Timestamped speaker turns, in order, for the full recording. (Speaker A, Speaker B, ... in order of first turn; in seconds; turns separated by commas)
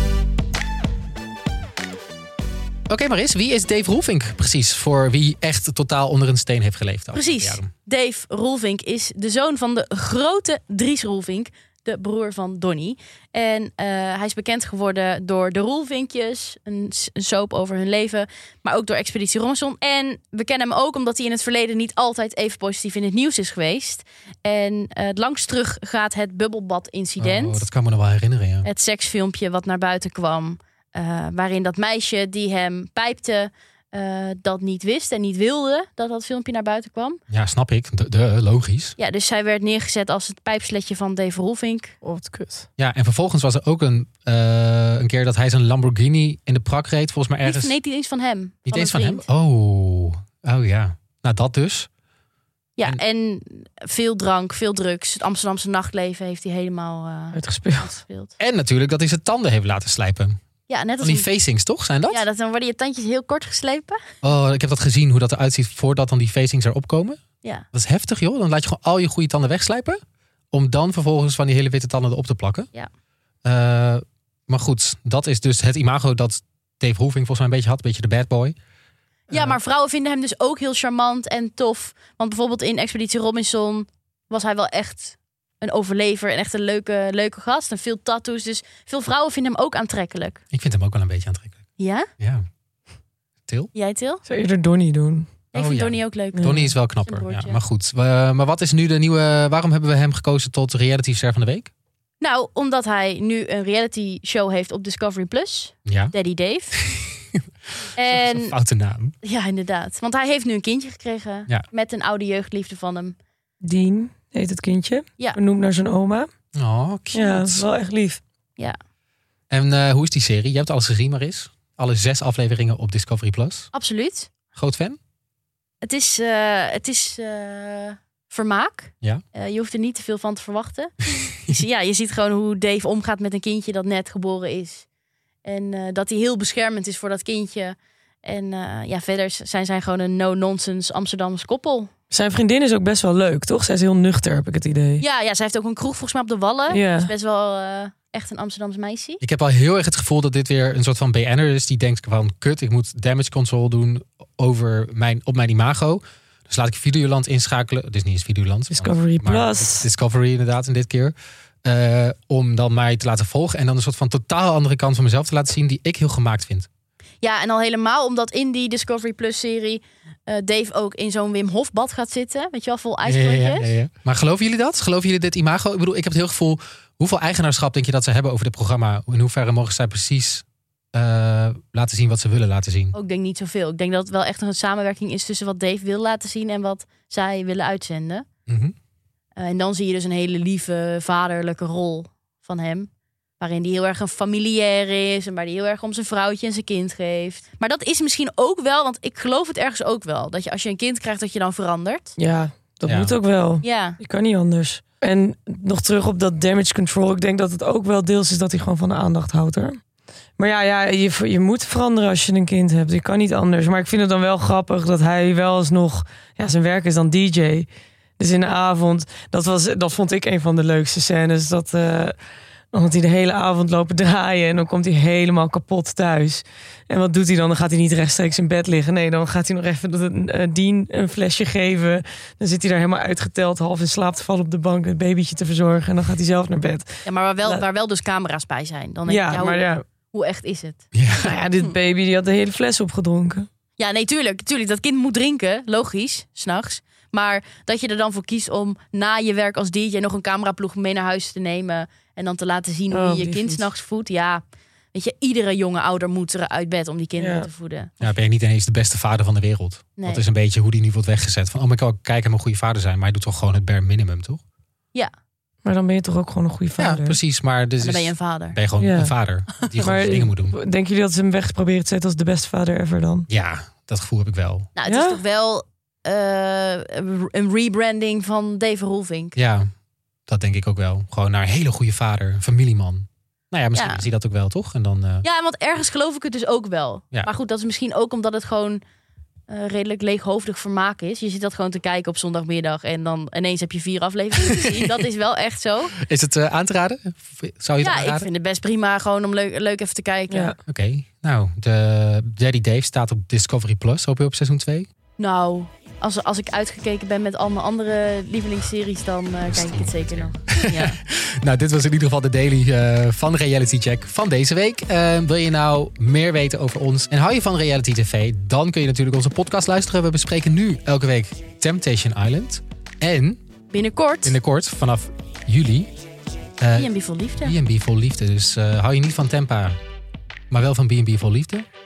Speaker A: 2.9-7.7, Speaker B: 7.1-27.7, Speaker A: 27.2-28.7, Speaker B: 28.6-37.2, Speaker A: 37.3-39.0, Speaker B: 39.0-42.0, Speaker C: 42.0-42.7, Speaker A: 42.8-47.8, Speaker B: 47.4-49.3, Speaker A: 48.7-51.9, Speaker B: 52.8-58.3, Speaker C: 57.3-58.0, Speaker A: 58.4-60.4, Speaker B: 60.7-61.3, Speaker A: 61.0-62.2, Speaker B: 62.1-64.0, Speaker A: 64.2-67.2, Speaker A: 67.7-70.0, Speaker A: 70.5-72.7, Speaker A: 73.4-78.5, Speaker A: 79.3-79.6, Speaker B: 79.3-90.4, Speaker A: 90.5-91.6, Speaker B: 91.8-92.1, Speaker A: 92.2-92.4, Speaker A: 93.5-93.7, Speaker B: 93.7-94.2, Speaker C: 94.2-95.3, Speaker B: 95.5-96.5, Speaker A: 95.5-101.7, Speaker C: 96.3-96.7, Speaker B: 97.0-97.6, Speaker B: 102.2-106.8, Speaker A: 105.8-106.1, Speaker A: 106.8-107.4, Speaker B: 107.9-108.5, Speaker A: 108.0-109.1, Speaker B: 109.2-113.2, Speaker C: 113.6-116.3, Speaker A: 116.5-117.6, Speaker C: 117.1-118.2, Speaker A: 119.5-123.7, Speaker B: 123.7-124.3, Speaker A: 124.5-125.0, Speaker B: 125.8-134.8, Speaker B: 135.4-141.9, Speaker C: 142.1-145.0, Speaker B: 145.0-149.2, Speaker C: 146.7-147.1, Speaker A: 149.2-166.7, Speaker C: 158.7-159.9, Speaker B: 167.2-173.7, Speaker A: 173.0-182.9, Speaker B: 182.9-188.2, Speaker A: 188.5-188.7, Speaker B: 189.4-202.1, Speaker C: 202.2-209.8, Speaker A: 202.9-203.2, Speaker B: 203.6-204.0, Speaker C: 210.4-217.7, Speaker C: 218.2-222.2, Speaker C: 222.7-236.9, Speaker B: 237.0-240.9, Speaker C: 239.1-239.8, Speaker A: 240.9-241.3, Speaker C: 241.2-243.5, Speaker B: 243.8-257.9, Speaker C: 252.9-253.7, Speaker C: 257.2-257.5, Speaker A: 258.0-264.4, Speaker B: 260.0-260.2, Speaker C: 265.6-267.2, Speaker A: 266.8-270.6, Speaker B: 267.8-268.6, Speaker C: 268.8-269.1, Speaker C: 269.8-273.3, Speaker A: 273.3-274.7, Speaker B: 274.8-279.4, Speaker C: 274.9-275.2, Speaker A: 279.4-279.7, Speaker A: 280.3-285.2, Speaker B: 283.7-284.0, Speaker B: 285.2-288.8, Speaker B: 289.5-295.9, Speaker A: 296.0-298.3, Speaker B: 297.8-300.5, Speaker C: 300.3-300.6, Speaker A: 300.7-304.9, Speaker B: 305.2-311.0, Speaker A: 309.5-323.4, Speaker B: 323.7-324.4, Speaker A: 324.2-325.9, Speaker A: 326.6-326.9, Speaker B: 326.7-327.5, Speaker A: 327.4-329.8, Speaker A: 330.5-331.6